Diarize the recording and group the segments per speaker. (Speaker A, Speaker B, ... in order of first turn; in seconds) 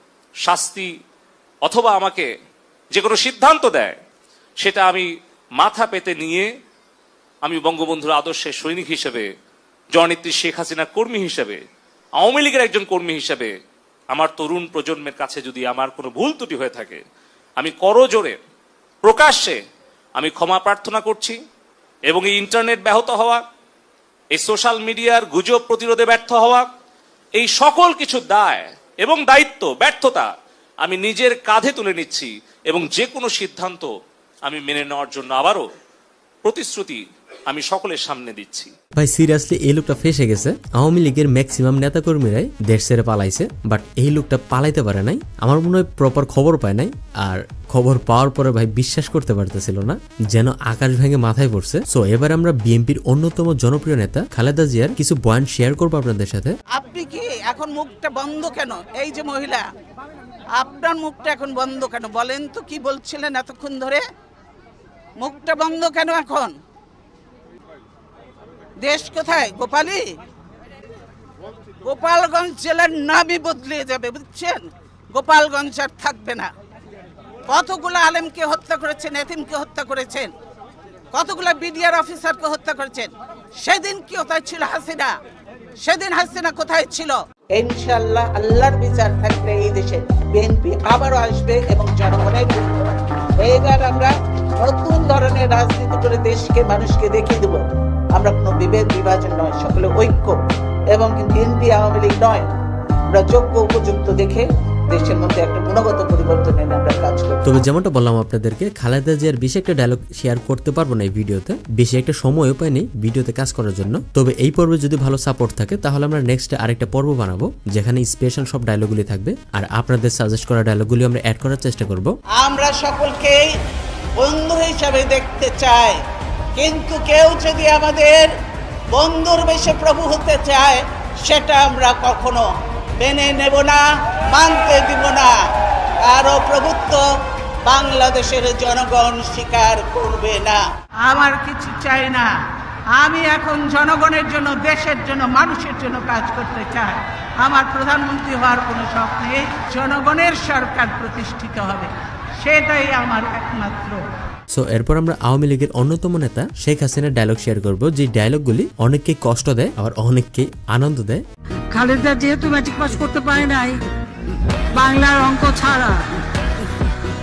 Speaker A: 0.4-0.9, 1.6-2.3, 2.9-4.0, 4.6-6.5, 7.4-9.3, 9.9-11.6, 12.2-13.5, 14.1-17.0, 17.6-18.4, 19.0-19.6, 20.1-21.4, 22.1-23.4, 24.3-26.7, 27.3-30.3, 30.8-33.9, 34.5-35.6, 36.4-38.7
Speaker B: 39.0-56.5, 107.4-122.1, 154.5-161.2
Speaker C: 56.8-59.6, 60.6-64.0, 65.2-66.5, 68.8-70.0, 71.8-76.5, 77.5-80.3, 81.1-85.1, 85.8-92.7, 93.4-97.6, 98.2-100.3, 100.9-102.5, 103.1-107.6, 122.4-123.4, 124.2-126.0, 126.6-128.3, 128.9-132.4, 133.0-135.3, 136.1-137.0, 137.7-142.3, 143.0-151.9, 152.4-154.0
Speaker D: 161.7-163.8, 164.7-166.0